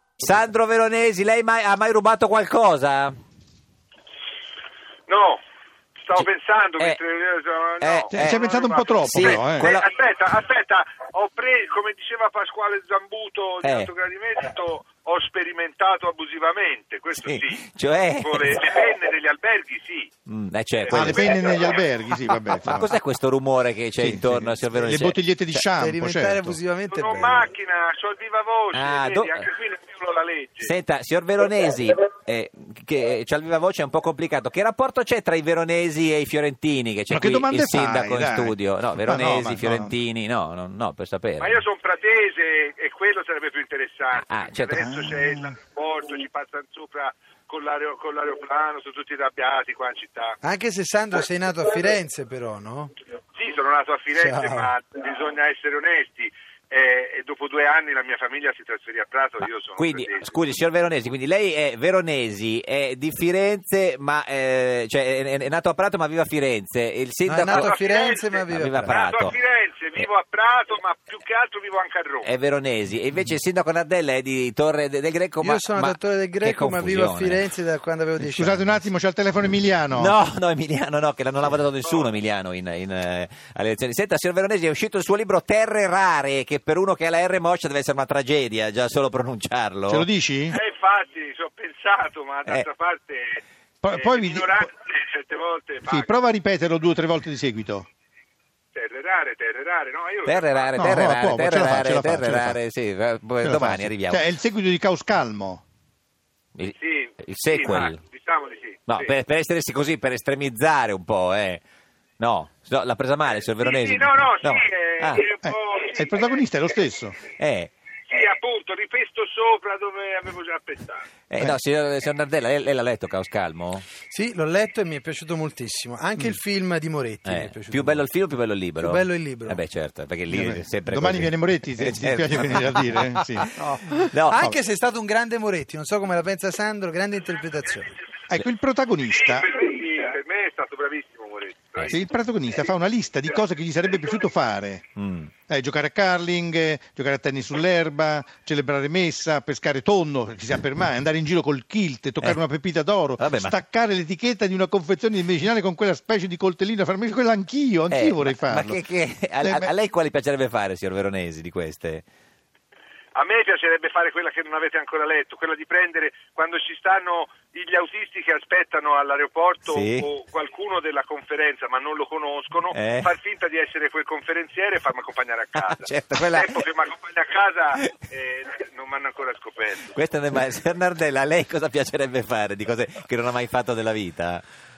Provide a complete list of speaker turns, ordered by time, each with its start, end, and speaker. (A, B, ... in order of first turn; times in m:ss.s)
0:00.2-0:03.1 A
0:05.1-0:05.4 B
0:06.1-0:20.1 B
0:07.8-0:08.4 A
0:08.1-0:09.7 C
0:09.0-0:09.9 A
0:13.6-0:13.9 A
0:17.2-0:18.9 A
0:20.3-0:21.4 A
0:20.8-0:21.8 B
0:20.9-0:23.0 C
0:22.6-0:25.6 A
0:24.0-0:26.6 C
0:25.7-0:27.5 D
0:26.9-0:30.7 B
0:28.7-0:29.5 A
0:30.6-0:41.6 A
0:37.1-0:39.9 C
0:41.4-0:50.4 B
0:44.1-0:44.9 A
0:50.4-0:52.9 D
0:53.4-1:00.4 B
0:54.3-0:54.7 D
0:59.4-1:07.8 A
1:07.3-1:09.0 D
1:07.5-1:12.3 B
1:08.4-1:09.4 A
1:12.2-1:17.4 A
1:15.4-1:18.9 D
1:18.2-1:20.2 C
1:19.9-1:30.1 A
1:29.9-1:30.6 C
1:30.5-1:36.1 B
1:33.8-1:34.6 C
1:35.9-1:37.9 C
1:38.7-1:40.8 B
1:40.3-1:44.2 A
1:40.8-1:42.6 C
1:43.4-1:45.6 C
1:46.6-1:48.0 A
1:46.8-1:49.2 B
1:48.9-1:51.6 A
1:52.2-1:55.3 A
1:53.3-1:56.4 B
1:55.4-1:57.2 C
1:57.4-1:57.7 A
1:58.1-2:01.1 B
2:01.3-2:03.9 A
2:04.1-2:08.0 D
2:07.2-2:14.5 A
2:08.8-2:09.6 D
2:10.3-2:13.5 C
2:13.6-2:17.9 D
2:18.3-2:19.5 C
2:19.1-2:22.0 B
2:21.9-2:24.8 C
2:25.0-2:25.3 A
2:25.5-2:38.8 C
2:33.2-2:33.6 A
2:37.9-2:42.0 A
2:39.4-2:39.7 C
2:43.2-3:00.0 B
2:49.7-2:50.1 A
2:52.7-2:53.1 A
2:55.6-2:56.6 A
2:59.9-3:04.4 A